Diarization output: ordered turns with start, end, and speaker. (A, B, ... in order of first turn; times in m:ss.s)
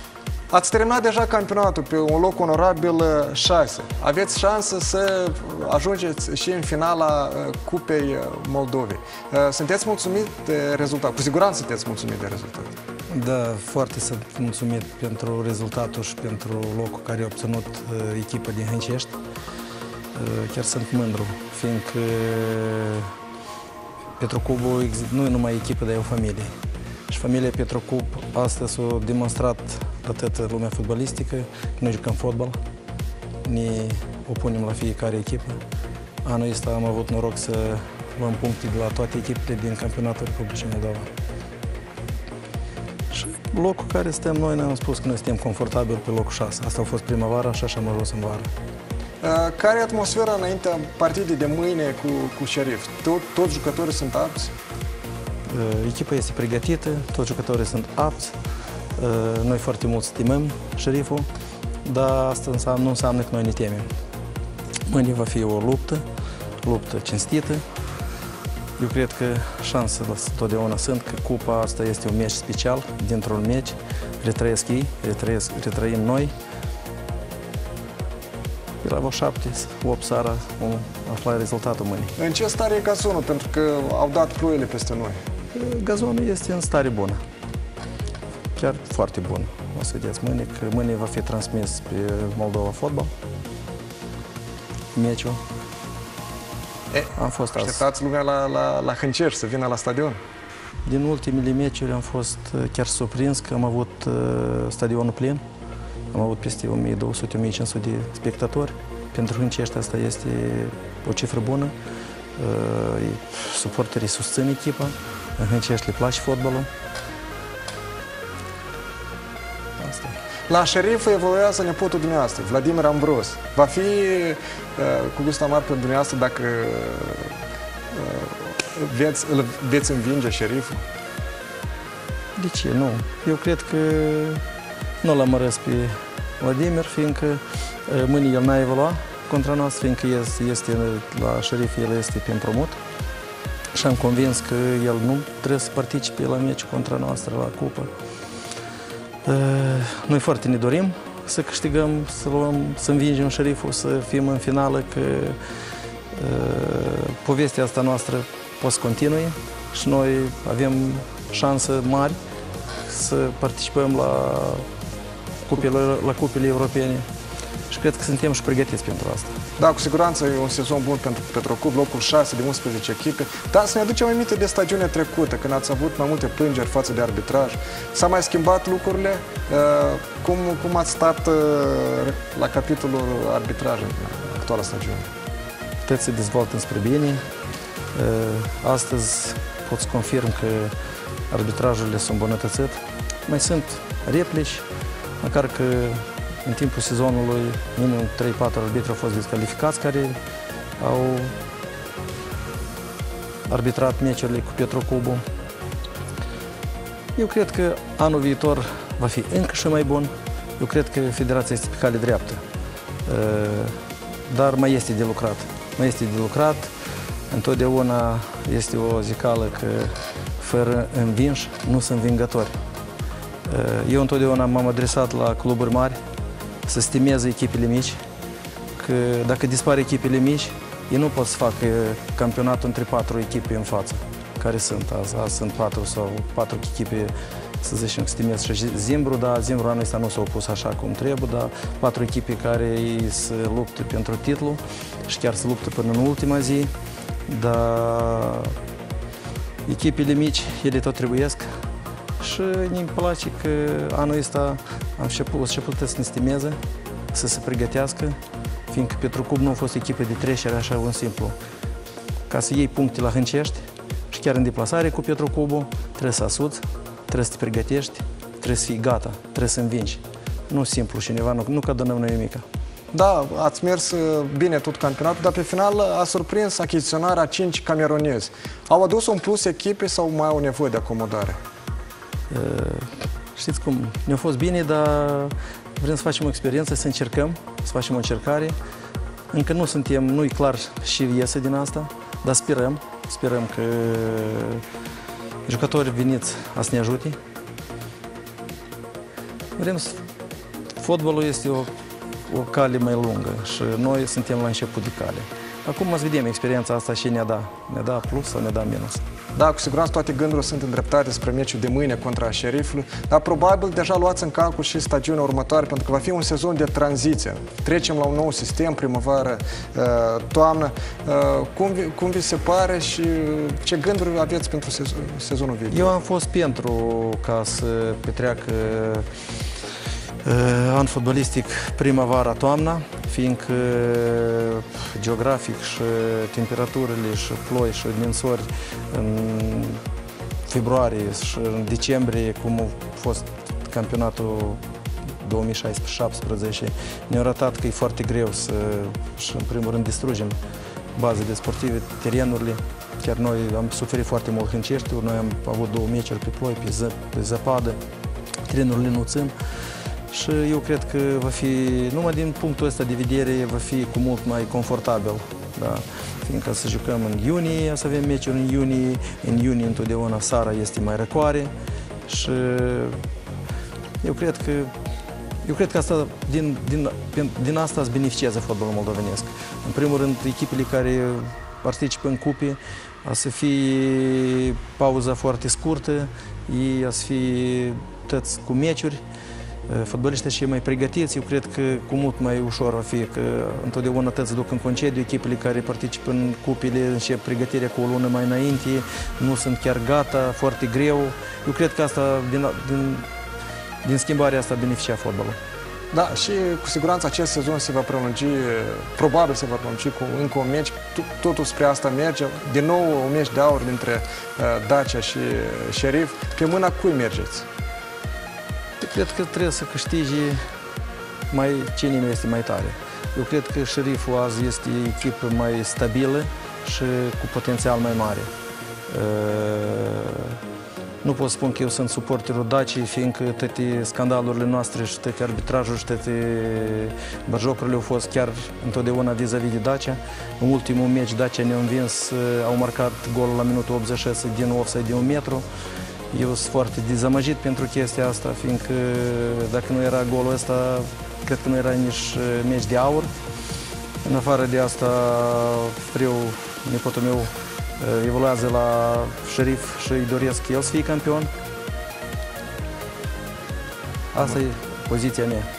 0:00.5-0:12.8 A
0:13.1-0:19.2 B
0:20.2-0:23.1 B
0:24.2-0:26.5 B
0:27.1-0:32.6 B
0:33.4-0:35.6 B
0:36.2-0:41.1 B
0:43.1-0:48.5 B
0:49.2-0:54.5 A
0:55.5-0:58.4 B
0:59.0-1:01.3 B
1:01.8-1:03.9 B
1:04.9-1:06.0 B
1:06.6-1:07.6 B
1:08.8-1:16.3 B
1:18.8-1:22.1 B
1:22.2-1:25.2 A
1:25.5-1:27.2 B
1:28.6-1:33.1 B
1:34.9-1:35.4 B
1:36.9-1:40.2 A
1:37.2-1:37.8 B
1:40.9-1:45.4 B
1:46.1-1:51.7 B
1:52.4-1:56.7 B
1:59.8-2:00.2 B
2:00.5-2:07.3 A
2:07.9-2:10.8 A
2:12.4-2:14.4 B
2:15.0-2:22.8 B
2:23.7-2:27.9 B
2:29.2-2:35.4 B
2:36.1-2:42.2 B
2:42.9-2:44.6 B
2:45.4-2:47.0 B
2:47.7-2:49.4 B
2:49.6-3:05.1 A
3:05.8-3:07.2 B
3:08.0-3:10.7 B
3:11.3-3:14.6 B
3:15.2-3:20.2 B
3:20.8-3:21.3 B
3:23.5-3:25.2 B
3:27.2-3:32.4 B
3:33.1-3:33.7 B
3:34.3-3:36.7 B
3:37.3-3:42.6 B
3:43.5-3:46.0 B
3:46.7-3:48.0 B
3:48.8-4:06.7 B
4:07.3-4:08.6 B
4:09.7-4:11.5 B
4:12.2-4:16.6 B
4:17.1-4:18.2 B
4:18.7-4:21.4 B
4:22.3-4:32.4 B
4:32.9-4:41.4 A
4:42.3-4:48.6 B
4:49.3-4:54.6 B
4:55.5-4:57.2 B
4:59.6-5:00.0 B
5:00.8-5:01.7 B
5:02.3-5:09.0 B
5:09.4-5:25.9 A
5:25.7-5:29.1 B
5:30.2-5:39.8 B
5:40.5-5:44.6 B
5:45.2-5:50.4 B
5:51.0-5:57.8 B
5:58.5-5:59.3 B
6:00.1-6:11.5 B
6:12.1-6:13.0 B
6:14.0-6:14.7 B
6:15.4-6:29.0 B
6:29.7-6:43.0 B
6:43.8-6:45.4 B
6:45.9-6:57.5 A
6:58.8-7:00.4 B
7:01.3-7:08.3 B
7:08.9-7:10.4 B
7:11.0-7:25.4 B
7:26.1-7:33.1 B
7:34.0-7:41.3 B
7:44.1-7:45.5 B